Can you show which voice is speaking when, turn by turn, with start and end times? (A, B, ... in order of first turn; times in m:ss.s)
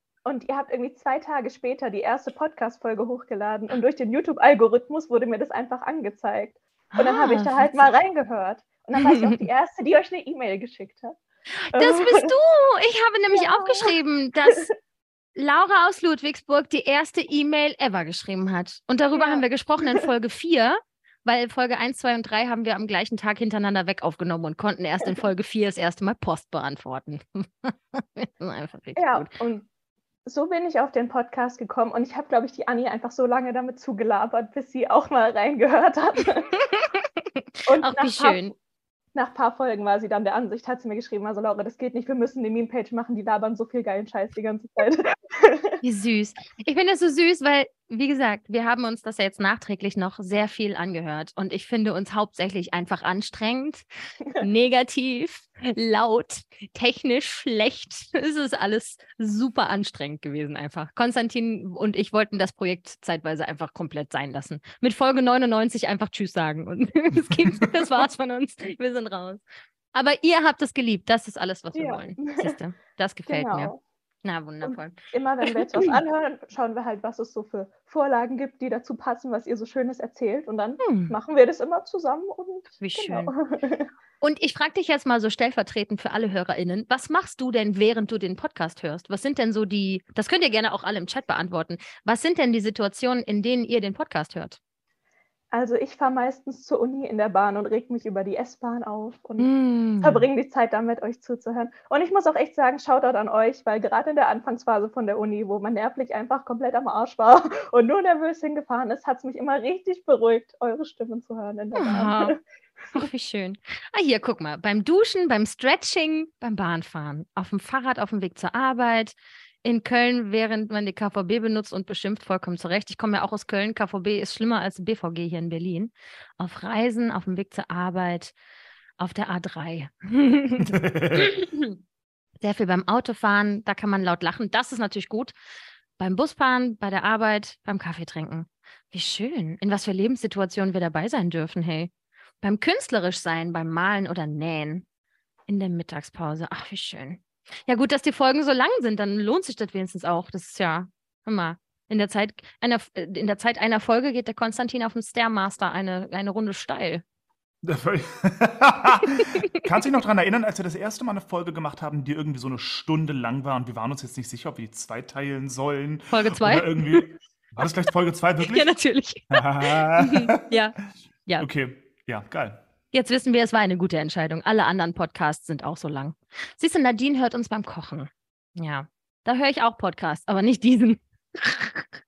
0:00.2-0:11.2 A
0:07.0-0:07.7 B
0:09.0-0:09.4 B
0:11.7-0:12.3 A
0:11.8-0:14.7 B
0:13.4-0:13.9 A
0:15.4-0:27.4 B
0:19.2-0:19.4 A
0:28.2-0:29.3 B
0:29.0-0:29.7 A
0:30.3-0:36.6 A
0:37.7-0:38.5 A
0:37.8-0:38.5 B
0:39.1-0:45.8 A
0:45.8-0:53.8 B
0:54.4-1:09.4 B
1:07.3-1:07.7 C
1:10.0-1:13.7 B
1:11.8-1:12.5 A
1:13.3-1:13.8 A
1:14.2-1:14.9 B
1:14.6-1:23.9 A
1:20.8-1:21.2 B
1:22.8-1:23.3 B
1:24.2-1:34.6 B
1:35.5-1:52.4 A
1:39.4-1:40.2 B
1:51.8-1:52.3 B
1:53.0-1:59.1 B
1:59.6-2:08.3 B
2:09.0-2:10.5 B
2:10.6-2:11.4 C
2:11.2-2:11.7 B
2:12.4-2:15.3 B
2:16.0-2:21.9 B
2:22.4-2:24.8 B
2:25.5-2:37.0 B
2:37.6-2:48.8 C
2:46.1-2:47.0 B
2:48.4-2:50.7 B
2:49.3-2:50.4 C
2:51.4-2:52.6 C
2:52.9-3:01.8 B